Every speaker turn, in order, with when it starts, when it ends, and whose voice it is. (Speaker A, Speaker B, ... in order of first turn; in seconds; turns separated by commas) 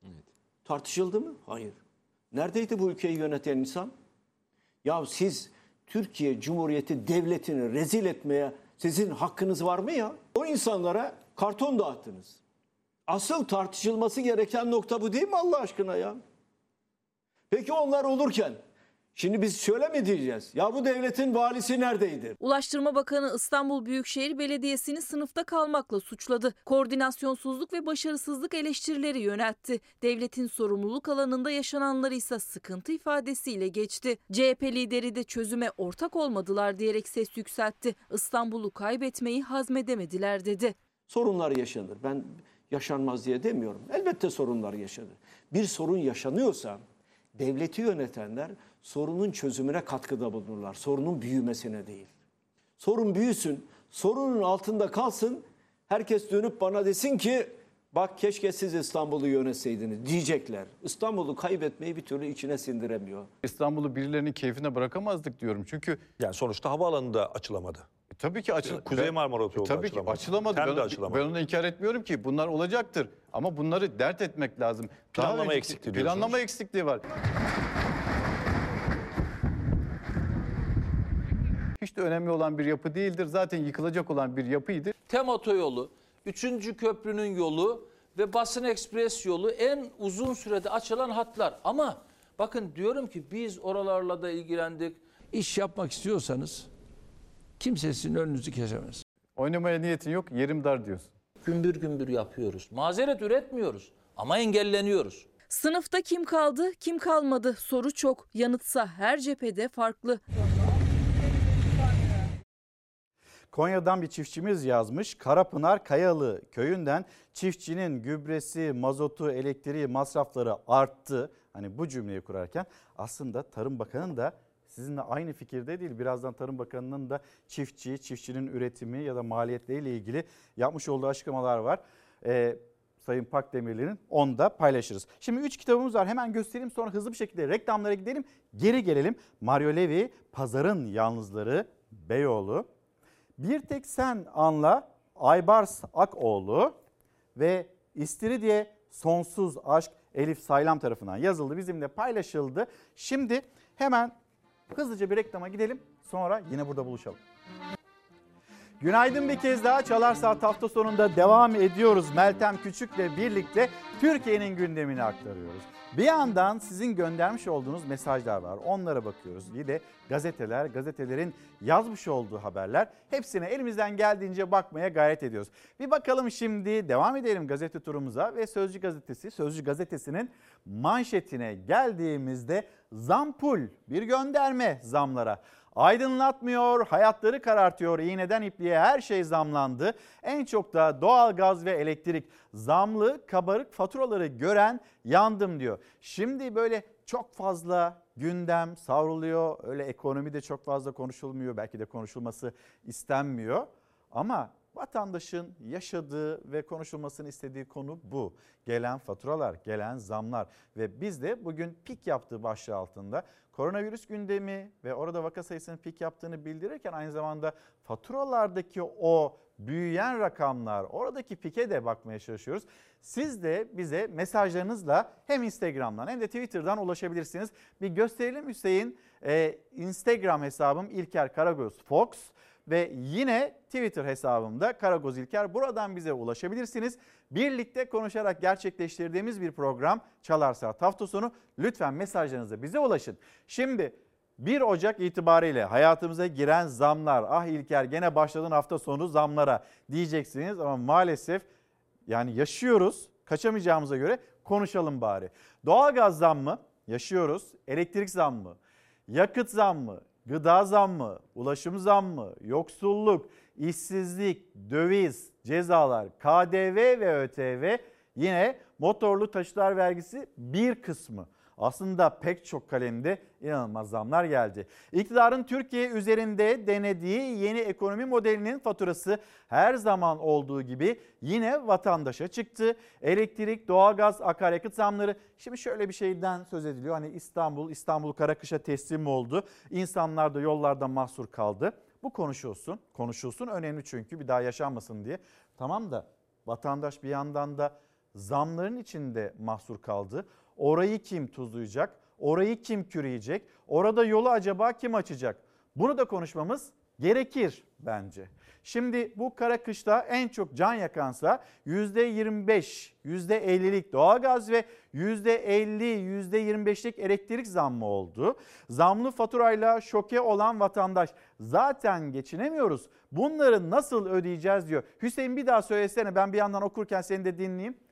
Speaker A: 0.7-1.8, Speaker A: 2.3-3.9, Speaker A: 4.8-12.4, Speaker A: 13.1-16.2, Speaker A: 17.5-18.6, Speaker A: 19.1-22.4, Speaker B: 22.4-40.8, Speaker A: 41.1-46.8, Speaker A: 47.4-52.1, Speaker A: 52.8-63.3, Speaker C: 63.4-66.1, Speaker D: 66.2-67.9, Speaker C: 68.2-77.0, Speaker D: 68.7-71.2, Speaker D: 75.1-76.4, Speaker C: 81.8-84.9, Speaker E: 85.1-95.0, Speaker F: 95.3-96.7, Speaker F: 97.6-99.0, Speaker C: 99.4-101.1, Speaker E: 101.4-105.3, Speaker B: 105.5-110.2, Speaker G: 113.5-142.7, Speaker G: 143.4-146.8, Speaker G: 147.3-154.2, Speaker G: 154.7-157.2, Speaker G: 158.8-251.4, Speaker G: 252.1-258.6, Speaker G: 259.1-327.8